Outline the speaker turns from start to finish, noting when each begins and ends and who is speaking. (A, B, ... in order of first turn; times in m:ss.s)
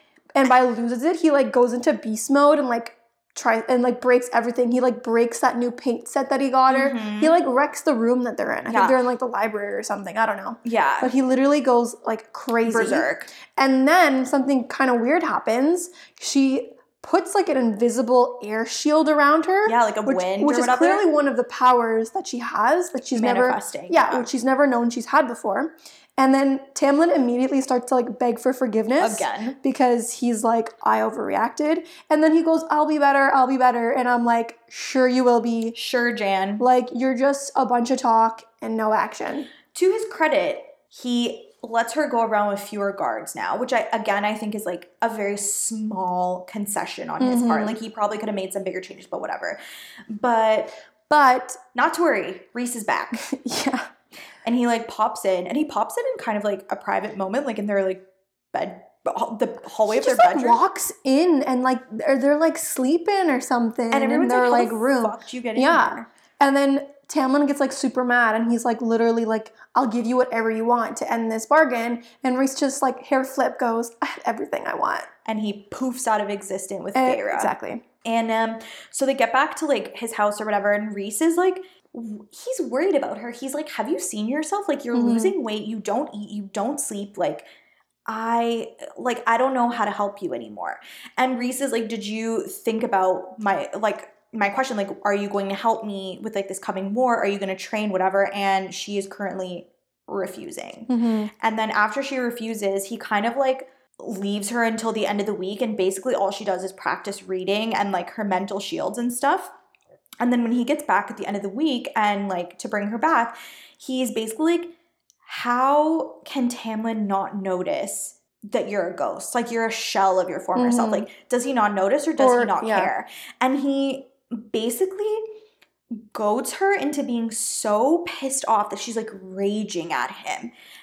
0:00.4-0:35.8 A
0:06.7-0:07.4 B
0:08.7-0:09.0 B
0:10.6-0:11.1 B
0:12.6-0:13.3 B
0:19.6-0:21.1 B
0:23.1-0:24.3 B
0:29.0-0:29.6 B
0:35.7-0:36.6 B
0:36.6-0:39.5 A
0:39.7-0:50.7 B
0:47.2-0:47.8 A
0:51.1-0:51.6 A
0:51.7-0:53.3 B
0:53.2-0:53.9 A
0:54.4-1:00.6 B
0:59.9-1:15.1 A
1:03.9-1:06.1 B
1:15.3-1:17.5 B
1:17.0-1:17.8 A
1:18.0-1:27.5 B
1:24.9-1:25.4 A
1:28.1-1:49.5 B
1:40.9-1:41.3 A
1:50.2-2:05.2 B
2:00.6-2:01.1 A
2:02.2-2:02.9 A
2:05.9-2:10.5 B